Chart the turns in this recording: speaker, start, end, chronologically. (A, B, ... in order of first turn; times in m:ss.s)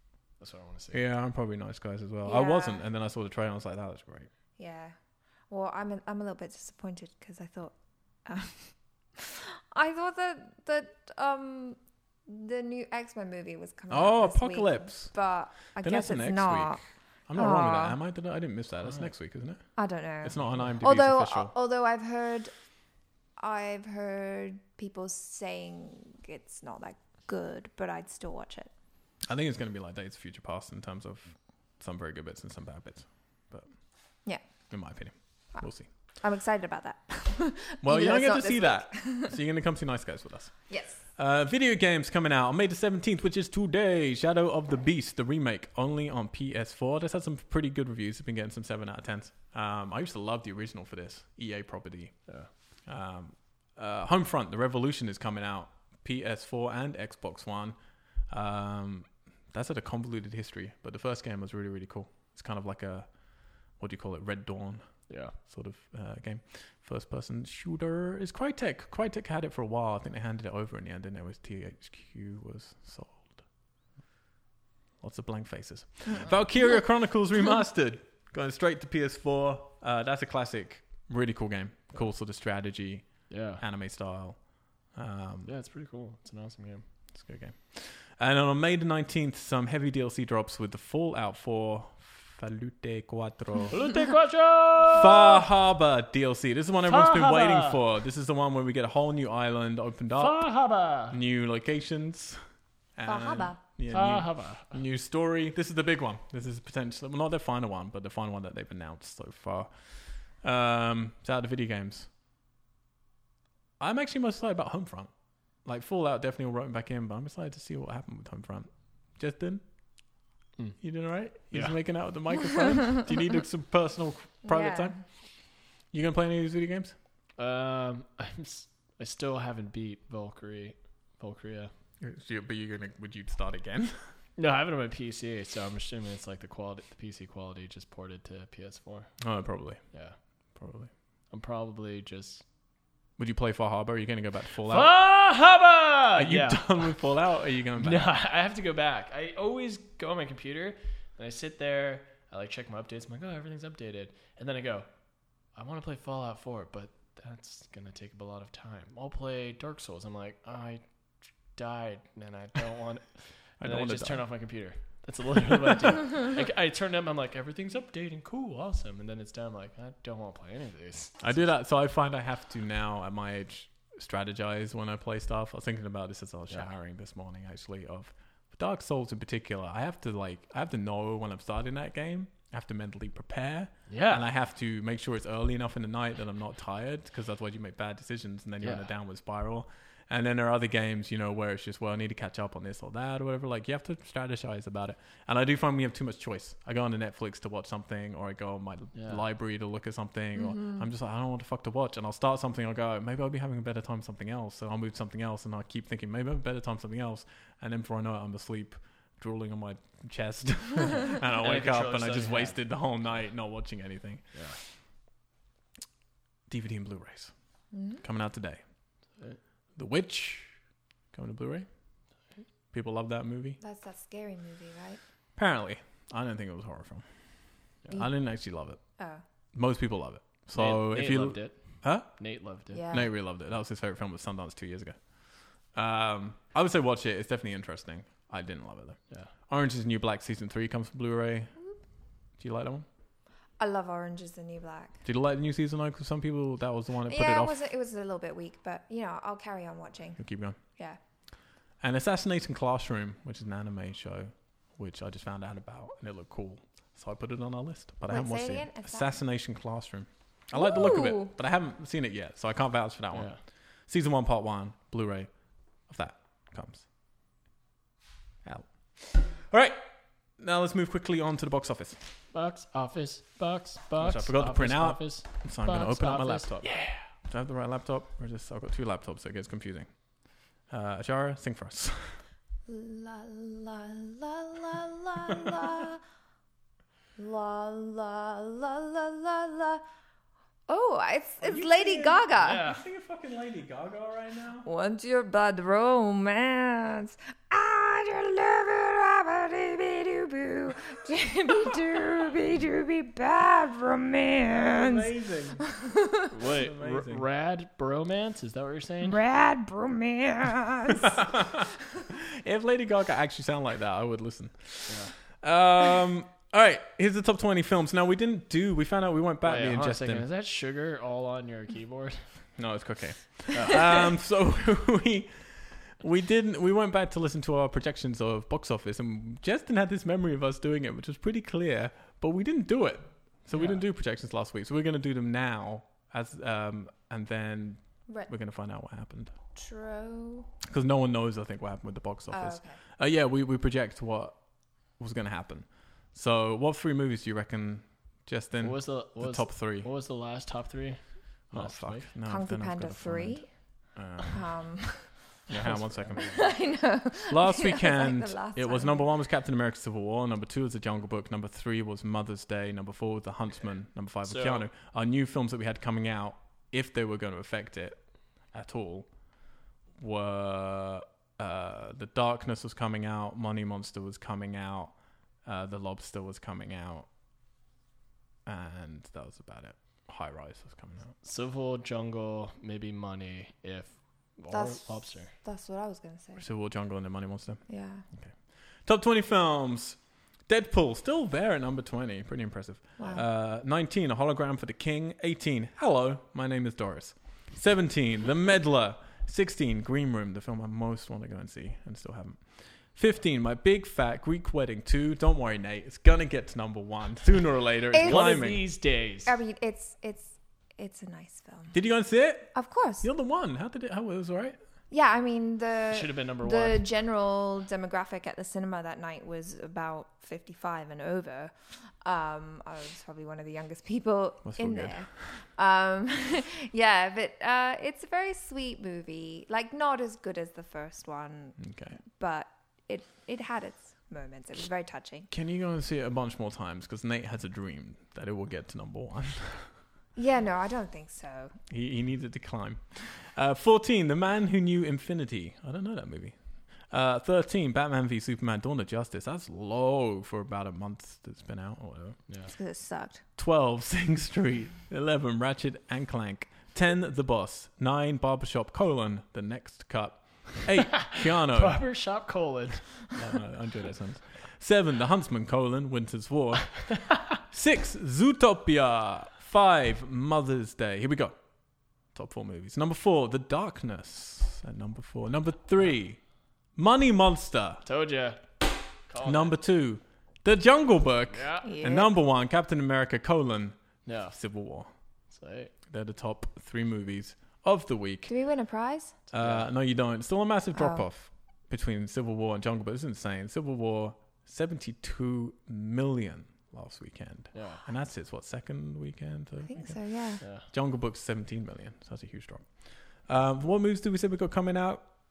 0:00.4-0:01.0 A
0:00.9-0:04.3 B
0:02.2-0:02.8 C
0:04.6-0:04.9 C
0:05.5-0:07.7 C
0:08.2-0:16.8 C
0:13.9-0:15.1 B
0:15.8-0:19.6 B
0:17.4-0:18.0 C
0:19.8-0:22.5 C
0:20.2-0:21.5 B
0:20.4-0:20.7 A
0:23.4-0:28.7 C
0:29.2-0:33.7 B
0:34.7-0:35.9 B
0:36.2-0:39.3 C
0:37.8-0:52.2 B
0:40.7-0:41.0 C
0:52.9-0:57.8 B
0:58.3-1:03.1 B
1:03.7-1:04.8 B
1:05.1-1:05.3 A
1:05.4-1:13.4 B
1:15.0-1:24.4 B
1:23.3-1:23.6 A
1:24.9-1:25.5 B
1:25.4-1:26.8 A
1:27.1-1:33.8 B
1:33.7-1:35.4 A
1:34.9-1:40.4 B
1:36.8-1:37.8 A
1:40.2-1:41.2 A
1:41.1-1:42.4 B
1:43.0-1:49.7 B
1:43.0-1:43.6 C
1:43.9-1:44.8 A
1:50.3-1:52.1 B
1:53.8-1:55.1 B
1:55.6-1:59.6 B
2:00.8-2:05.0 B
2:01.5-2:01.8 A
2:04.4-2:05.0 C
2:05.9-2:06.9 B
2:07.4-2:11.7 A
2:12.0-2:13.9 B
2:14.4-2:19.1 A
2:19.2-2:19.8 B
2:20.6-2:20.9 B
2:21.3-2:22.4 A
2:23.2-2:24.9 B
2:24.6-2:26.9 A
2:26.1-2:28.1 B
2:27.7-2:34.8 A
2:35.5-2:40.8 A
2:41.5-2:51.2 A
2:43.6-2:44.2 B
2:51.2-3:34.4 B
3:03.9-3:04.3 A
3:08.6-3:08.9 A
3:19.0-3:19.2 A
3:20.4-3:20.8 C
3:31.4-3:32.6 A
3:34.3-3:34.6 A
3:36.5-3:37.3 B
3:37.7-3:38.0 C
3:38.0-3:38.6 B
3:39.8-3:40.5 B
3:41.1-3:41.6 B
3:42.7-3:43.6 B
3:43.6-3:45.0 C
3:45.4-3:47.0 B
3:47.9-3:48.8 B
3:49.0-3:49.2 C
3:49.5-3:52.2 B
3:50.5-3:52.8 A
3:52.7-3:53.1 C
3:52.9-3:55.1 B
3:55.7-4:01.5 B
4:02.4-4:02.8 B
4:03.6-4:04.9 C
4:05.0-4:07.6 B
4:07.1-4:11.0 C
4:10.2-4:10.6 B
4:11.8-4:23.3 B
4:18.1-4:19.1 C
4:20.5-4:21.3 C
4:23.1-4:23.4 A
4:23.9-4:25.3 B
4:25.9-4:26.8 B
4:28.4-4:32.0 B
4:32.3-4:37.0 A
4:34.0-4:36.7 B
4:37.2-4:39.9 B
4:40.7-4:42.2 B
4:42.7-4:46.0 C
4:47.2-4:49.8 C
4:50.7-4:52.6 C
4:51.4-4:54.6 B
4:52.4-4:52.8 A
4:54.6-5:05.1 C
5:04.5-5:05.6 B
5:05.7-5:06.3 C
5:06.3-5:09.2 A
5:06.4-5:07.2 B
5:09.0-5:11.1 C
5:11.0-5:20.2 B
5:14.9-5:15.1 A
5:19.4-5:22.3 A
5:22.6-5:39.3 B
5:23.5-5:23.9 A
5:33.5-5:33.8 A
5:39.6-5:40.5 C
5:40.6-5:44.4 B
5:42.3-5:42.8 C
5:45.0-5:49.9 B
5:48.6-5:52.0 A
5:51.5-5:53.4 B
5:52.2-5:53.5 C
5:53.9-5:54.4 B
5:54.3-5:55.1 C
5:55.5-5:56.4 B
5:55.5-5:56.5 A
5:56.2-5:59.1 C
5:57.3-6:09.1 B
6:04.3-6:04.6 A
6:10.0-6:17.1 B
6:18.4-6:21.1 B
6:21.2-6:25.3 A
6:24.5-6:26.4 C
6:26.4-6:27.6 B
6:27.7-6:28.0 C
6:28.8-6:48.6 B
6:33.0-6:33.2 C
6:47.9-6:48.4 C
6:48.0-6:49.3 A
6:49.2-6:51.8 C
6:51.7-6:54.6 B
6:52.5-6:53.0 C
6:54.9-7:15.3 C
6:55.9-6:56.8 A
7:04.4-7:05.1 B
7:11.6-7:12.0 B
7:15.3-7:19.7 B
7:20.2-7:21.5 C
7:21.7-7:32.2 B
7:32.3-7:32.5 A
7:32.5-7:33.2 C
7:33.4-7:41.8 B
7:41.0-7:43.2 A
7:43.2-7:51.4 B
7:46.9-7:47.2 A
7:52.1-7:56.2 B
7:56.8-7:57.8 B
7:57.8-7:58.4 A
7:59.1-7:59.6 A
7:59.2-8:04.9 B
8:01.3-8:01.7 A
8:01.6-8:02.1 C
8:04.0-8:04.4 A
8:05.3-8:05.7 A
8:05.9-8:08.3 B
8:08.2-8:09.1 C
8:09.3-8:09.7 A
8:09.3-8:20.0 B
8:10.7-8:11.0 C
8:17.5-8:17.8 A
8:19.6-8:20.4 C
8:20.4-8:20.6 A
8:20.6-8:25.0 B